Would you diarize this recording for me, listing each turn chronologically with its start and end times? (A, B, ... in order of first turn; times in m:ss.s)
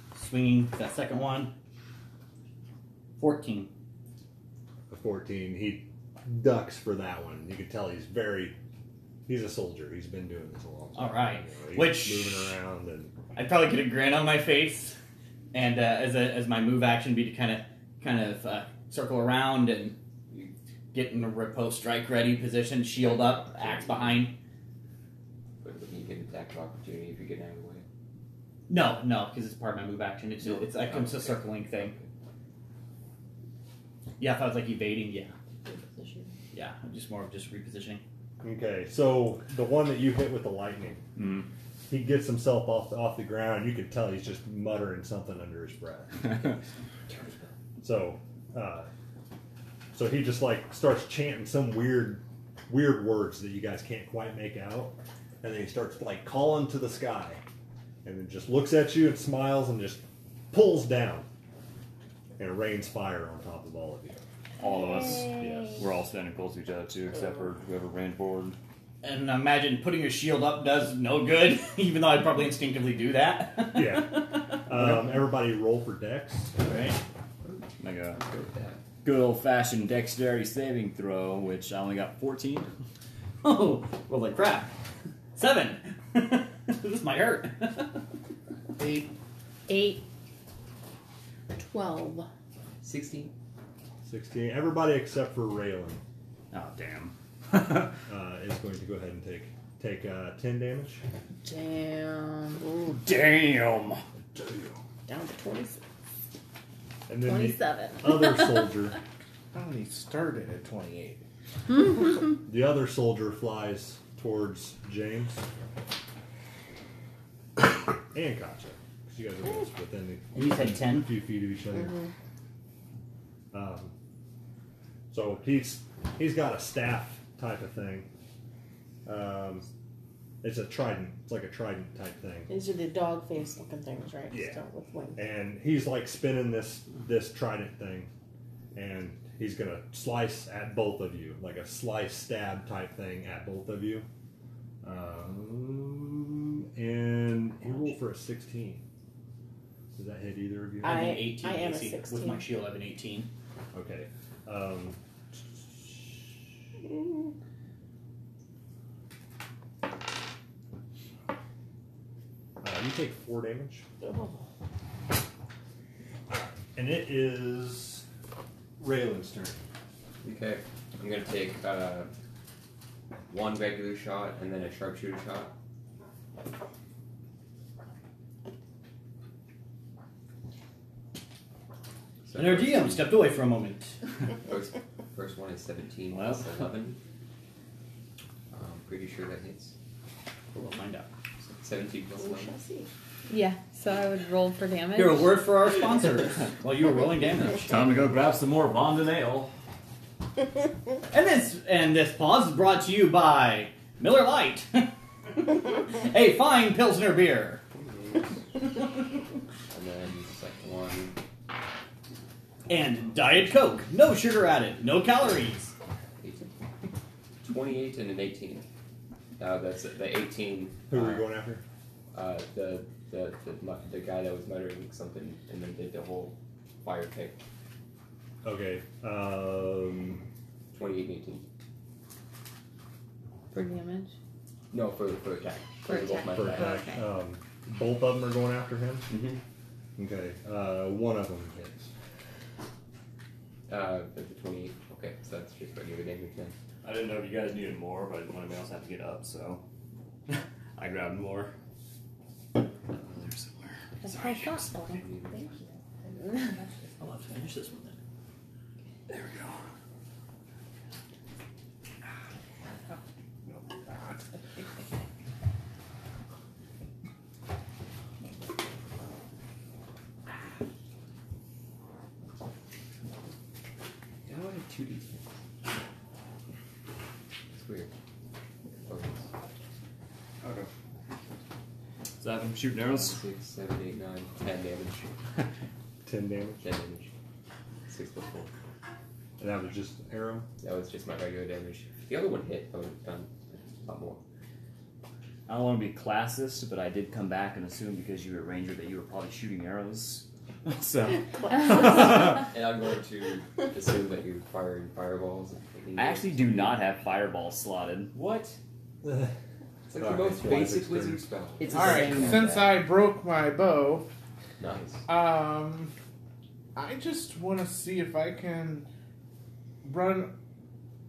0:00.1-0:01.5 A
0:03.2-0:03.7 A
0:04.9-0:08.6 B
0:09.2-0:13.1 B
0:11.0-0:12.5 A
0:13.3-0:15.0 A
0:15.5-0:20.0 A
0:20.9-0:24.4 A
0:23.0-0:24.3 C
0:25.6-0:27.8 C
0:28.7-0:31.9 A
0:30.4-0:32.1 C
0:34.2-0:35.3 A
0:35.6-0:36.3 D
0:36.5-0:38.0 A
0:38.4-0:41.0 B
0:41.2-0:41.4 E
0:41.9-0:46.4 B
0:46.2-0:46.6 E
0:47.8-0:48.9 B
0:49.9-0:57.4 B
0:58.0-1:01.3 B
1:02.4-1:04.2 B
1:04.6-1:08.6 E
1:04.6-1:05.8 F
1:09.0-1:15.0 A
1:13.7-1:16.6 B
1:16.6-1:17.0 A
1:17.8-1:18.2 E
1:18.1-1:18.8 C
1:19.0-1:22.7 E
1:23.4-1:24.7 A
1:25.3-1:28.0 A
1:28.8-1:29.1 G
1:29.7-1:30.0 D
1:31.5-1:32.3 D
1:32.8-1:33.3 C
1:34.0-1:36.0 B
1:36.5-1:38.0 E
1:38.1-1:41.0 B
1:41.4-1:42.9 D
1:42.7-1:44.0 E
1:44.3-1:44.8 B
1:45.1-1:45.8 D
1:47.1-1:49.0 B
1:47.2-1:48.7 D
1:49.5-1:51.2 G
1:52.4-1:55.4 B
1:58.1-2:02.0 B
2:00.3-2:01.1 A
2:01.7-2:02.1 D
2:03.5-2:03.9 B
2:05.1-2:08.1 B
2:09.0-2:09.7 B
2:10.4-2:12.5 B
2:12.5-2:15.2 D
2:14.3-2:14.6 B
2:15.1-2:18.1 B
2:18.7-2:24.1 B
2:24.8-2:28.8 B
2:29.9-2:31.2 B
2:30.8-2:32.4 D
2:30.8-2:33.3 A
2:33.7-2:35.0 B
2:36.8-2:37.3 D
2:42.6-2:43.9 B
2:44.0-2:44.4 D
2:46.3-2:48.0 B
2:48.8-2:49.6 B
2:50.2-2:52.1 C
2:53.3-2:55.5 C
3:02.2-3:03.2 C
3:02.3-3:04.0 A
3:04.4-3:07.0 C
3:06.1-3:06.5 E
3:08.5-3:09.8 C
3:10.5-3:11.1 A
3:11.4-3:12.6 C
3:12.2-3:12.9 D
3:13.3-3:15.3 F
3:15.0-3:17.8 A
3:17.5-3:19.5 E
3:21.1-3:27.6 A
3:27.7-3:28.4 C
3:29.7-3:31.2 C
3:32.7-3:35.7 A
3:36.2-3:36.5 C
3:37.4-3:38.7 C
3:39.4-3:41.3 C
3:40.9-3:41.6 B
3:42.1-3:47.4 C
3:48.4-3:50.2 B
3:50.7-3:51.4 C
3:53.5-3:54.2 F
3:54.7-3:56.9 C
3:55.8-3:57.1 F
3:56.3-3:59.1 B
3:59.1-3:59.4 C
4:00.0-4:01.9 B
4:03.7-4:06.5 C
4:06.8-4:09.6 E
4:10.3-4:11.5 E
4:12.9-4:14.7 E
4:14.0-4:16.7 F
4:14.8-4:15.7 C
4:17.0-4:18.0 E
4:19.1-4:19.6 E
4:23.5-4:24.6 G
4:34.3-4:35.2 E
4:37.5-4:37.9 C
4:38.7-4:39.3 C
4:40.4-4:40.7 E
4:42.2-4:43.2 E
4:42.8-4:45.2 C
4:46.0-4:46.7 B
4:46.6-4:47.1 C
4:47.9-4:48.5 C
4:49.4-4:50.5 B
4:50.6-4:54.2 C
4:55.5-5:02.5 E
5:01.4-5:01.8 D
5:01.9-5:06.8 C
5:06.0-5:08.6 E
5:09.0-5:09.3 B
5:09.9-5:12.8 C
5:10.0-5:11.3 B
5:11.6-5:12.5 E
5:11.7-5:14.1 G
5:14.6-5:15.0 C
5:15.0-5:15.9 G
5:16.7-5:18.9 G
5:19.8-5:20.3 G